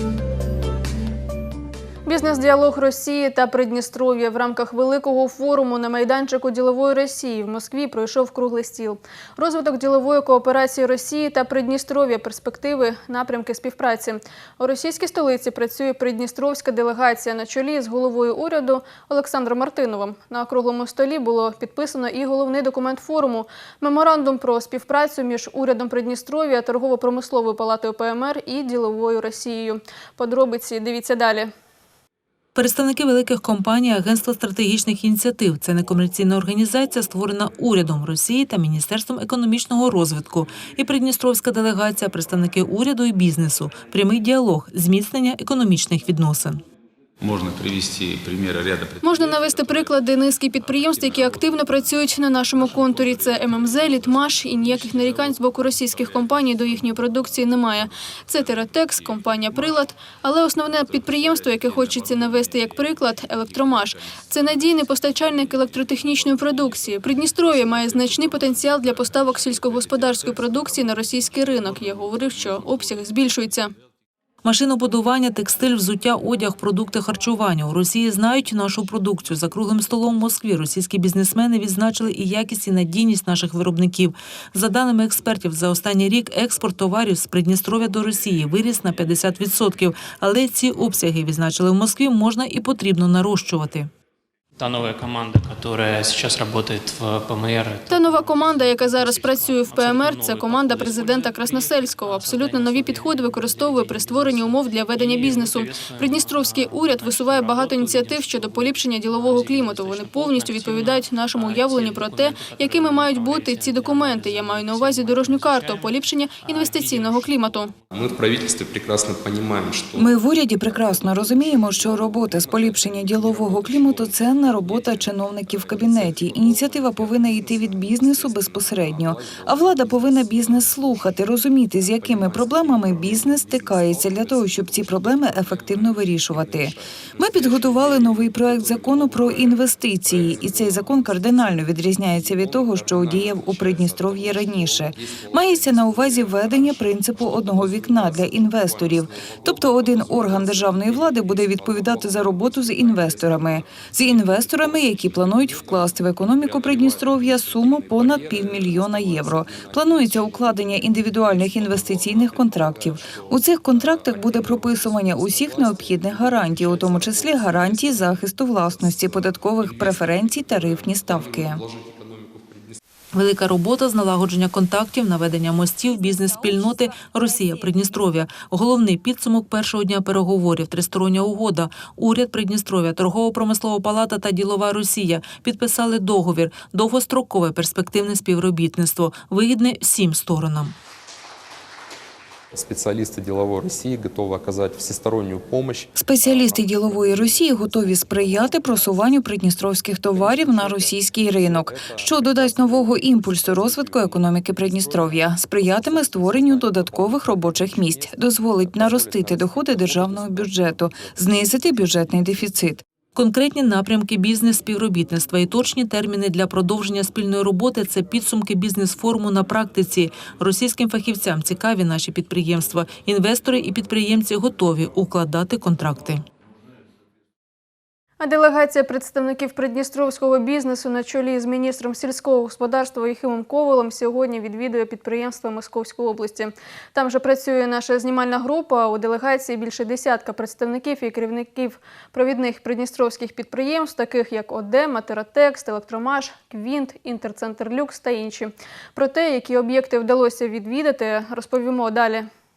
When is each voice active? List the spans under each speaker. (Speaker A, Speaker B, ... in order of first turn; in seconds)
Speaker A: 2.0-31.5, 49.0-73.7, 97.8-117.7, 228.2-252.2
Speaker B: 32.5-46.6, 74.4-93.9, 173.1-190.7, 213.1-226.2
Speaker C: 94.6-117.3
Speaker D: 117.9-120.0, 171.8-172.8, 192.5-195.9
Speaker E: 119.9-171.6, 195.9-212.8